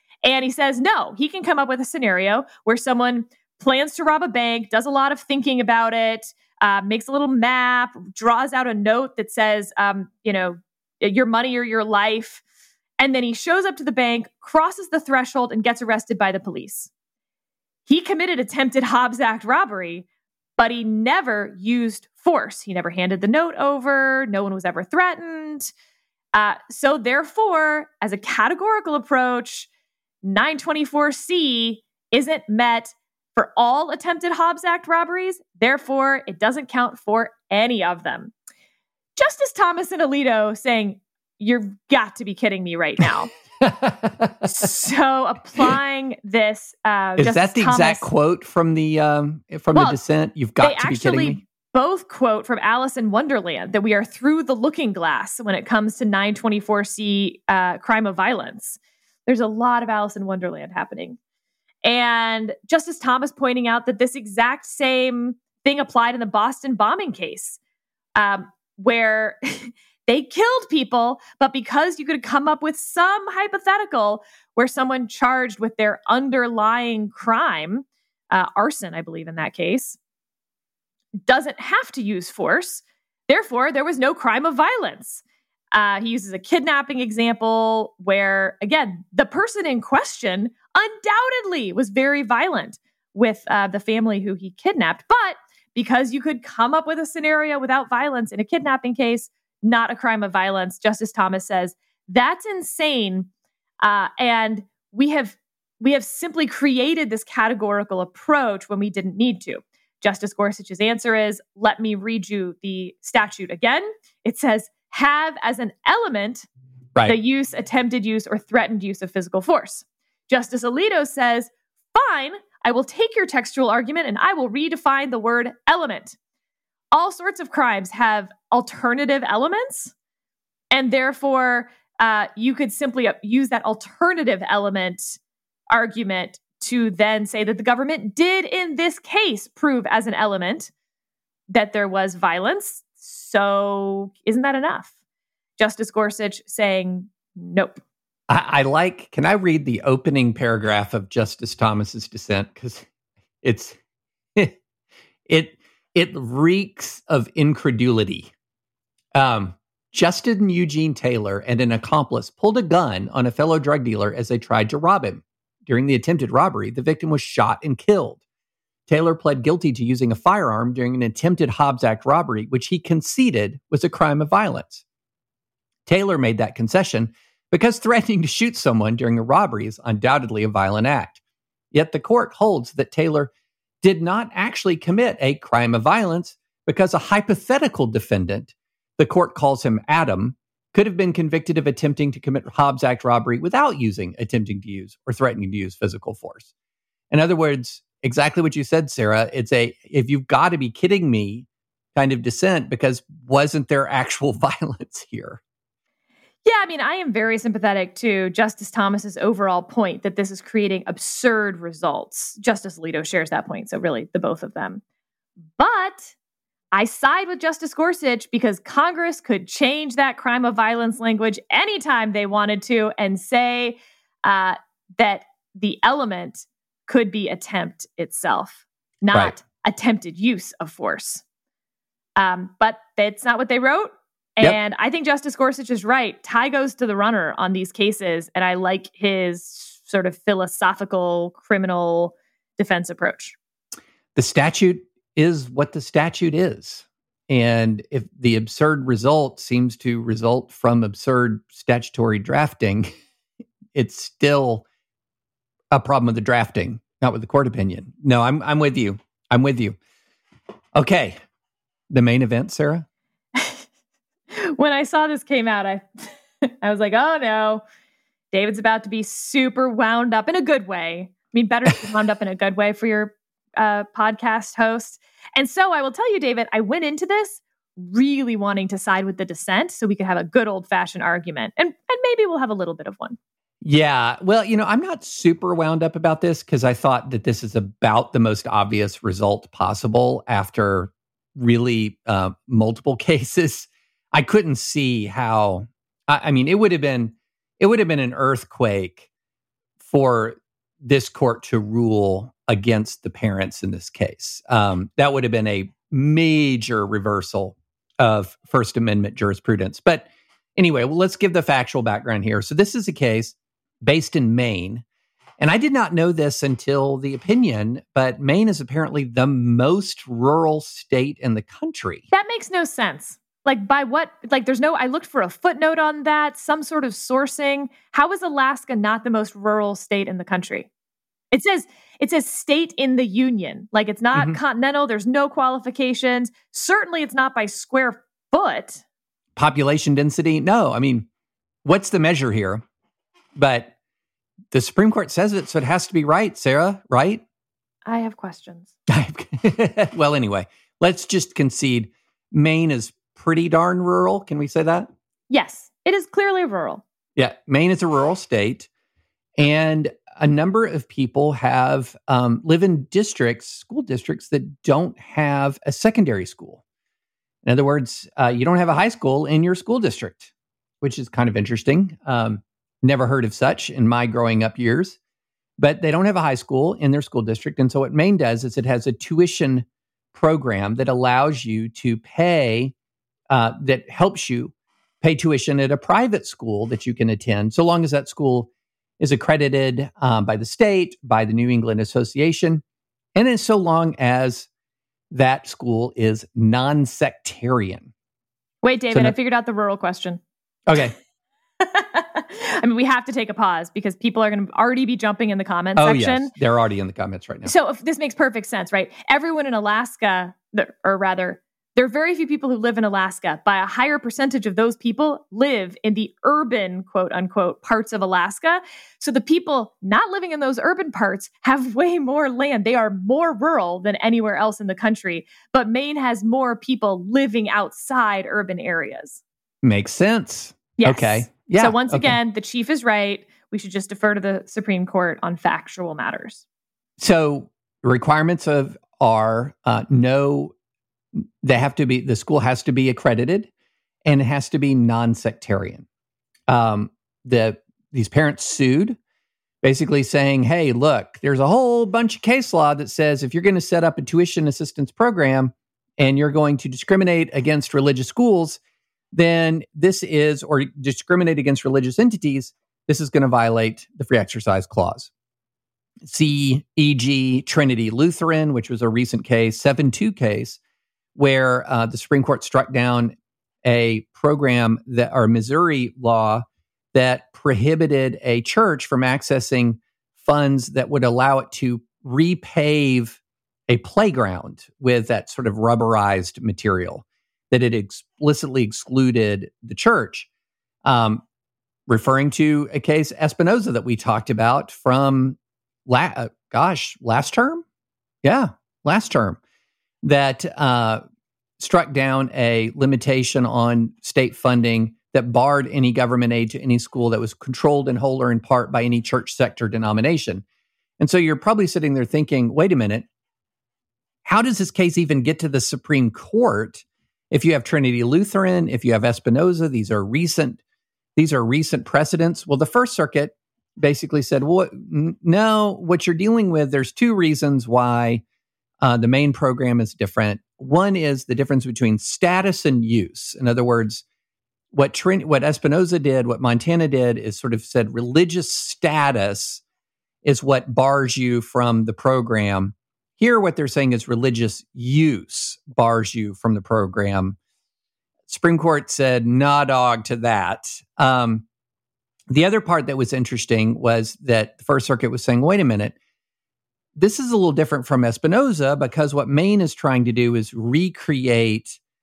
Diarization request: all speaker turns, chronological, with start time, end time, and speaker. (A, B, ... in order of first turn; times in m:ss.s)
0:00.2-0:12.4 A
0:13.0-0:16.9 A
0:17.9-0:20.1 A
0:20.6-0:25.7 A
0:26.3-0:29.7 A
0:30.2-0:38.3 A
0:39.2-0:43.3 A
0:43.6-0:44.7 B
0:44.4-0:48.1 A
0:47.2-0:51.4 B
0:50.6-1:01.2 A
1:01.8-1:07.6 A
1:08.2-1:20.0 A
1:21.3-1:25.2 A
1:25.7-1:43.3 A
1:43.8-1:56.5 A
1:57.1-2:06.2 A
2:06.9-2:09.9 A
2:10.7-2:15.2 A
2:15.7-2:20.7 A
2:21.5-2:24.9 A
2:25.6-2:27.8 A
2:28.3-2:32.9 B
2:33.4-2:33.8 B
2:35.3-2:38.3 B
2:39.1-2:48.2 B
2:48.9-2:54.8 B
2:55.9-3:01.2 B
3:01.7-3:03.3 B
3:03.8-3:16.5 B
3:17.1-3:25.4 B
3:26.4-3:34.8 A
3:35.6-3:36.1 A
3:36.7-3:51.2 A
3:52.2-4:03.4 A
4:04.2-4:12.9 B
4:13.8-4:14.6 B
4:15.7-4:19.8 B
4:20.7-4:21.2 B
4:21.9-4:22.9 B
4:23.4-4:23.6 A
4:24.3-4:27.6 A
4:28.3-4:43.2 A
4:43.6-4:59.1 B
4:59.8-5:14.8 B
5:15.4-5:22.0 B
5:22.1-5:30.7 A
5:31.3-5:38.8 A
5:34.1-5:34.4 B
5:39.4-5:41.1 B
5:41.6-5:42.6 B
5:43.4-5:43.7 B
5:44.5-5:47.2 B
5:47.9-5:48.7 A
5:48.9-5:54.9 B
5:55.3-5:56.8 A
5:57.2-5:58.7 B
5:59.4-6:06.6 B
6:07.4-6:10.3 B
6:10.8-6:15.0 B
6:15.6-6:22.7 B
6:23.3-6:28.5 B
6:29.0-6:32.6 B
6:33.2-6:34.5 B
6:35.1-6:37.9 B
6:38.6-6:40.2 A
6:40.7-6:41.0 B
6:41.6-6:46.3 A
6:45.8-6:47.5 B
6:47.4-7:09.2 A
7:09.6-7:12.2 B
7:10.8-7:16.4 A
7:17.0-7:20.5 B
7:21.2-7:23.5 B
7:24.1-7:25.9 B
7:26.5-7:29.0 B
7:29.6-7:38.6 B
7:39.1-7:45.1 B
7:46.0-7:50.6 B
7:51.2-8:10.3 B
8:10.8-8:11.2 B
8:11.9-8:17.6 B
8:18.2-8:19.4 B
8:20.0-8:21.0 B
8:21.6-8:30.4 B
8:31.0-8:33.1 B
8:34.2-8:40.6 B
8:41.2-8:48.2 B
8:48.8-8:54.0 B
8:54.7-8:59.6 B
9:00.2-9:07.4 B
9:08.3-9:11.5 B
9:12.3-9:16.0 B
9:17.0-9:21.8 B